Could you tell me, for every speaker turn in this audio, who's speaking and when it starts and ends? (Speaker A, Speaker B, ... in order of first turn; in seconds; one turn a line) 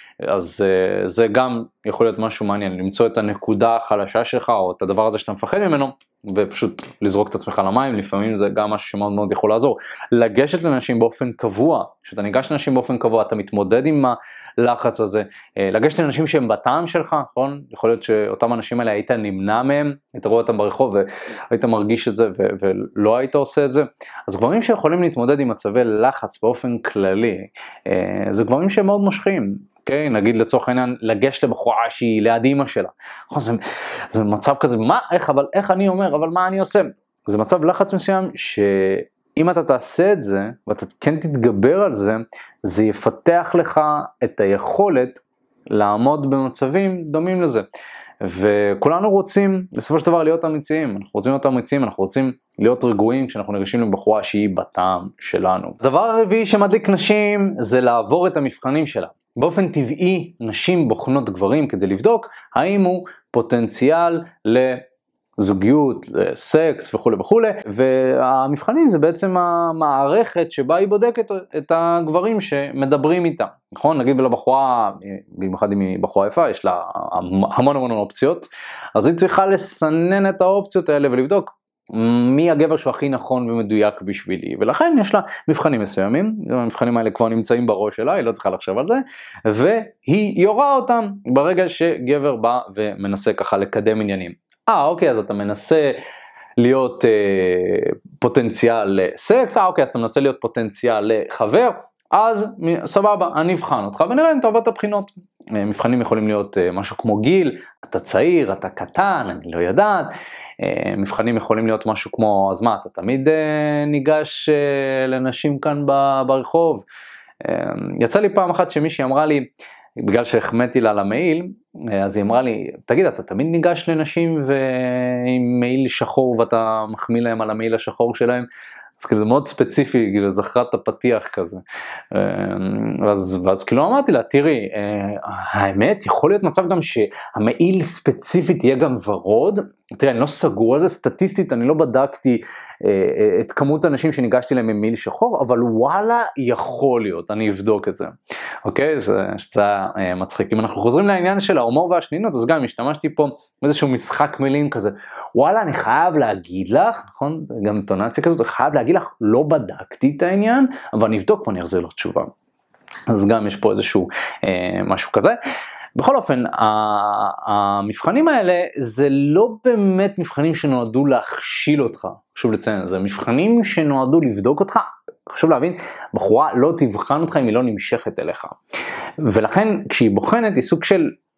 Speaker A: 0.2-47.6
Speaker A: 48.2-64.8
Speaker A: 65.4-96.0
Speaker A: 96.6-116.8
Speaker A: 117.4-128.5
Speaker A: 129.0-148.1
Speaker A: 148.6-162.3
Speaker A: 163.1-165.4
Speaker A: 165.9-178.6
Speaker A: 179.2-181.2